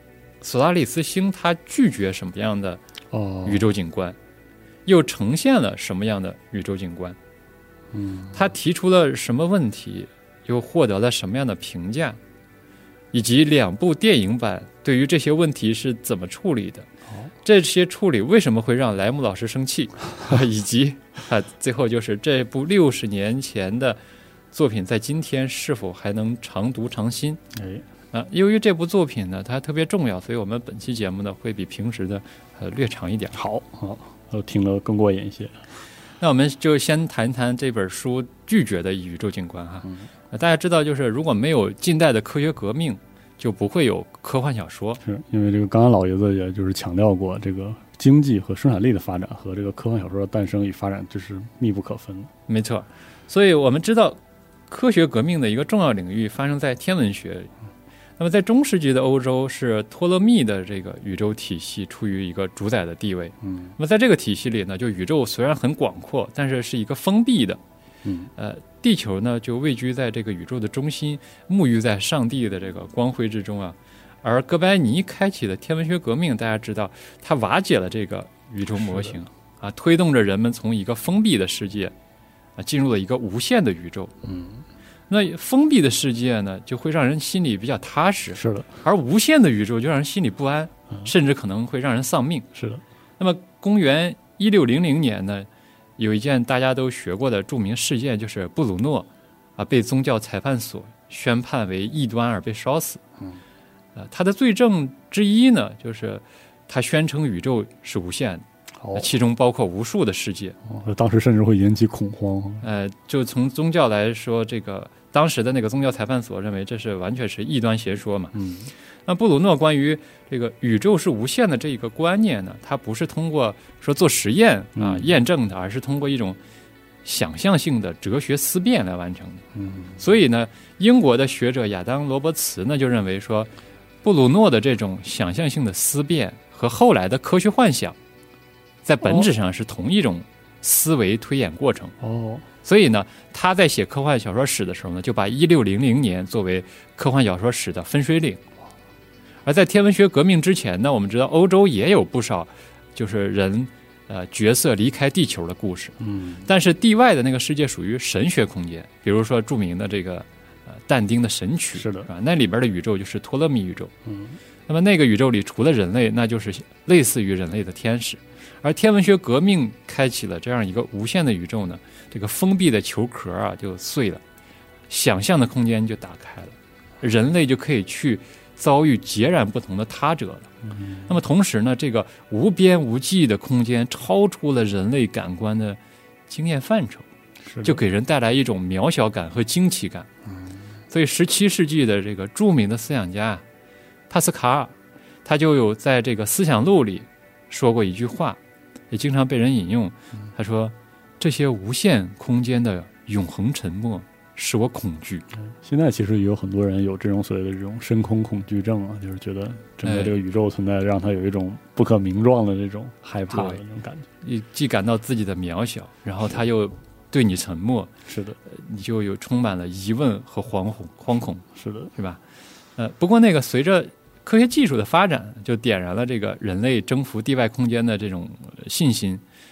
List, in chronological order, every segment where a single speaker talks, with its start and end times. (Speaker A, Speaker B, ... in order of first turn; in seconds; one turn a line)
Speaker A: 0.4-2.8
Speaker B: 3.1-3.7
Speaker A: 3.4-4.2
Speaker A: 4.8-7.2
Speaker B: 7.9-8.4
Speaker A: 8.3-12.2
Speaker A: 13.1-16.9
Speaker A: 17.4-24.0
Speaker A: 24.5-27.4
Speaker B: 27.5-27.8
Speaker A: 28.1-33.4
Speaker B: 33.3-35.6
Speaker A: 36.2-45.0
Speaker B: 45.0-52.3
Speaker A: 52.5-57.5
Speaker A: 58.2-67.6
Speaker B: 63.4-63.7
Speaker B: 68.0-68.3
Speaker A: 68.3-81.9
Speaker B: 78.8-79.2
Speaker A: 82.6-84.1
Speaker B: 84.2-84.7
Speaker A: 85.1-92.5
Speaker B: 88.4-88.7
Speaker B: 92.5-92.8
Speaker A: 93.2-103.0
Speaker A: 103.9-110.6
Speaker B: 108.8-109.1
Speaker B: 110.7-112.6
Speaker A: 112.6-118.3
Speaker B: 118.3-118.7
Speaker A: 119.1-126.4
Speaker B: 124.8-125.1
Speaker A: 127.0-129.4
Speaker B: 129.6-130.0
Speaker A: 130.0-133.5
Speaker A: 134.0-137.9
Speaker A: 138.8-141.9
Speaker B: 142.0-142.4
Speaker A: 142.6-148.4
Speaker A: 149.4-163.9
Speaker B: 156.0-156.4
Speaker B: 161.7-162.1
Speaker B: 164.1-164.4
Speaker A: 164.7-174.2
Speaker A: 174.9-180.5
Speaker B: 180.8-181.1
Speaker A: 181.1-187.1
Speaker B: 187.4-187.8
Speaker A: 187.6-190.1
Speaker A: 190.9-193.4
Speaker A: 194.1-194.7
Speaker A: 195.2-198.4
Speaker A: 198.9-205.2
Speaker B: 205.4-214.1
Speaker A: 209.8-210.1
Speaker A: 213.3-213.6
Speaker A: 214.2-217.9
Speaker B: 218.1-218.4
Speaker A: 218.4-222.2
Speaker B: 221.6-221.9
Speaker A: 222.8-229.2